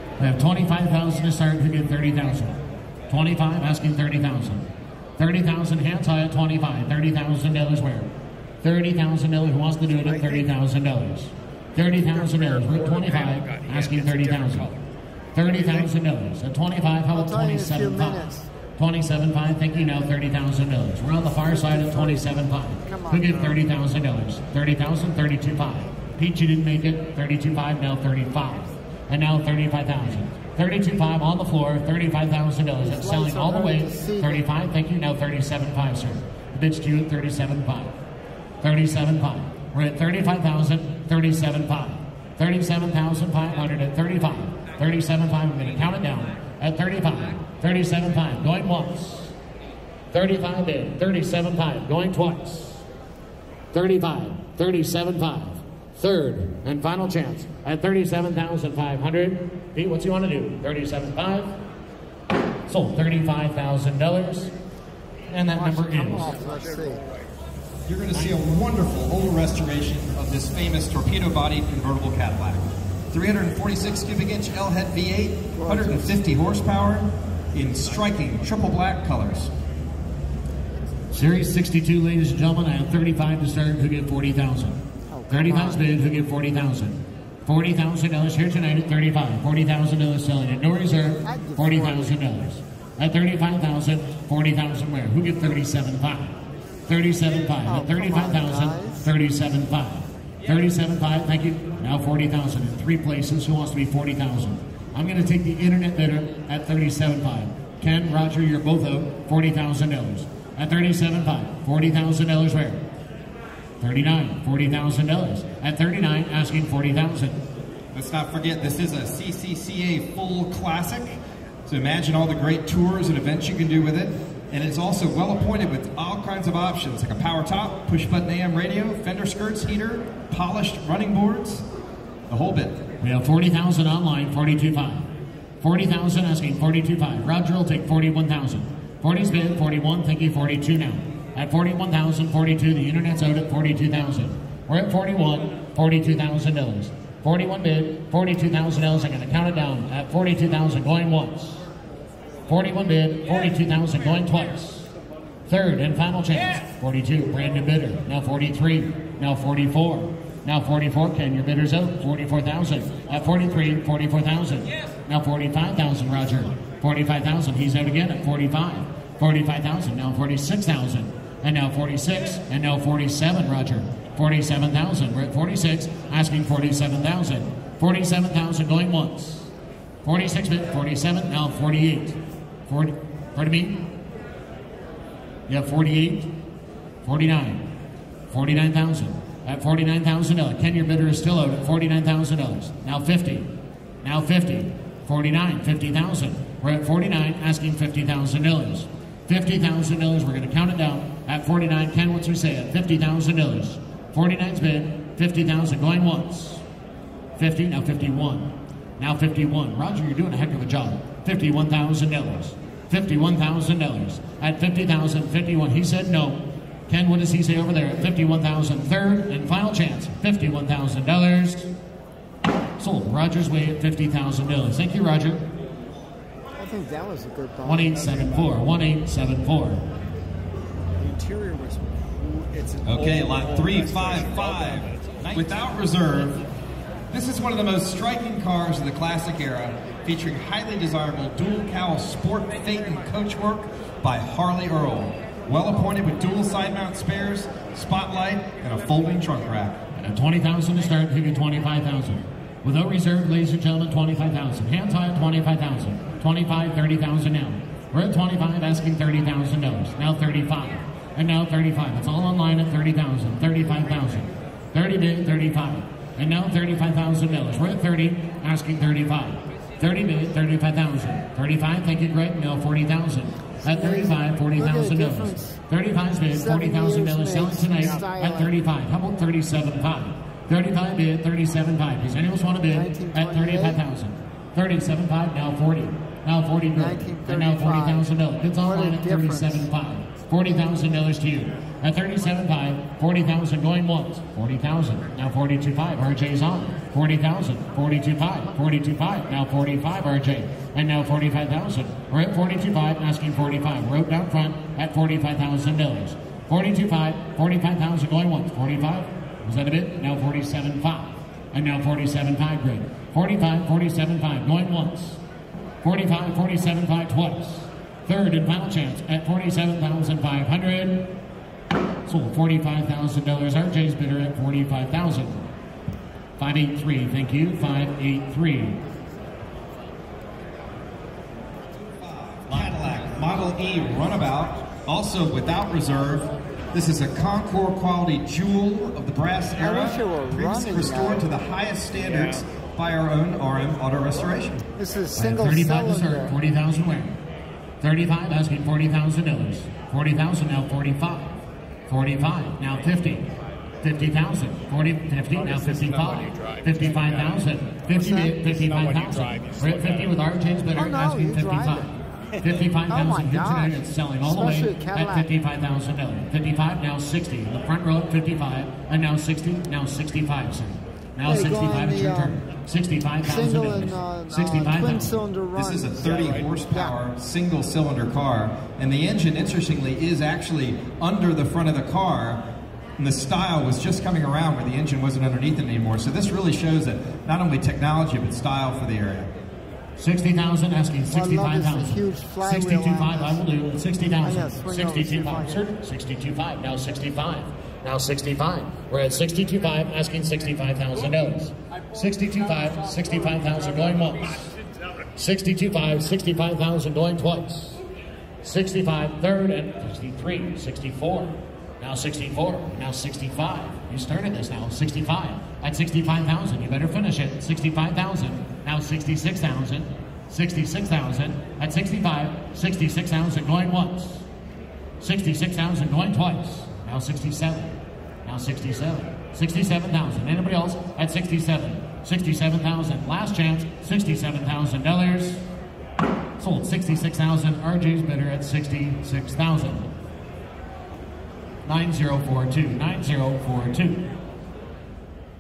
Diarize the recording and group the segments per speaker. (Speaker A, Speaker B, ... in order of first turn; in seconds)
Speaker A: 0.2-8.1, 8.6-14.7, 15.3-37.9, 38.6-49.4, 50.1-52.8, 53.7-61.5, 62.7-64.5, 65.3-66.4, 81.1-84.8, 85.3-96.4, 96.9-112.8, 113.8-117.4, 133.0-151.6, 152.4-154.9, 155.5-179.5, 180.0-183.8, 185.5-186.4, 187.0-187.7, 188.3-193.5, 194.0-206.6, 207.4-221.7, 222.8-225.4, 227.6-229.8, 250.0-315.2, 315.8-321.2, 322.1-325.5, 326.4-328.8, 345.2-347.2, 347.8-351.4, 351.9-353.3, 353.8-375.2, 390.0-404.5, 405.0-407.8, 408.4-424.3, 425.0-435.5, 436.4-439.9, 441.6-444.1
Speaker B: 12.3-14.8, 66.6-67.0, 228.1-228.5, 231.0-235.7, 355.4-360.1, 376.0-376.5
Speaker C: 17.1-18.5, 21.4-22.2, 22.8-23.6, 32.8-34.5, 65.5-67.1, 75.6-76.1, 85.1-85.9, 91.2-92.2, 97.6-99.1, 226.6-228.2, 273.6-275.6, 276.3-278.6, 282.7-283.8, 286.8-289.6, 339.6-341.3, 344.8-346.4, 358.0-358.4, 360.7-361.9, 362.9-365.3, 371.2-372.3, 373.2-376.0, 376.7-376.9, 391.1-393.4, 394.2-395.7
Speaker D: 67.9-79.5, 117.9-131.7, 132.3-132.8, 232.8-236.4, 237.1-249.8, 332.0-344.6, 375.6-382.4, 383.0-389.3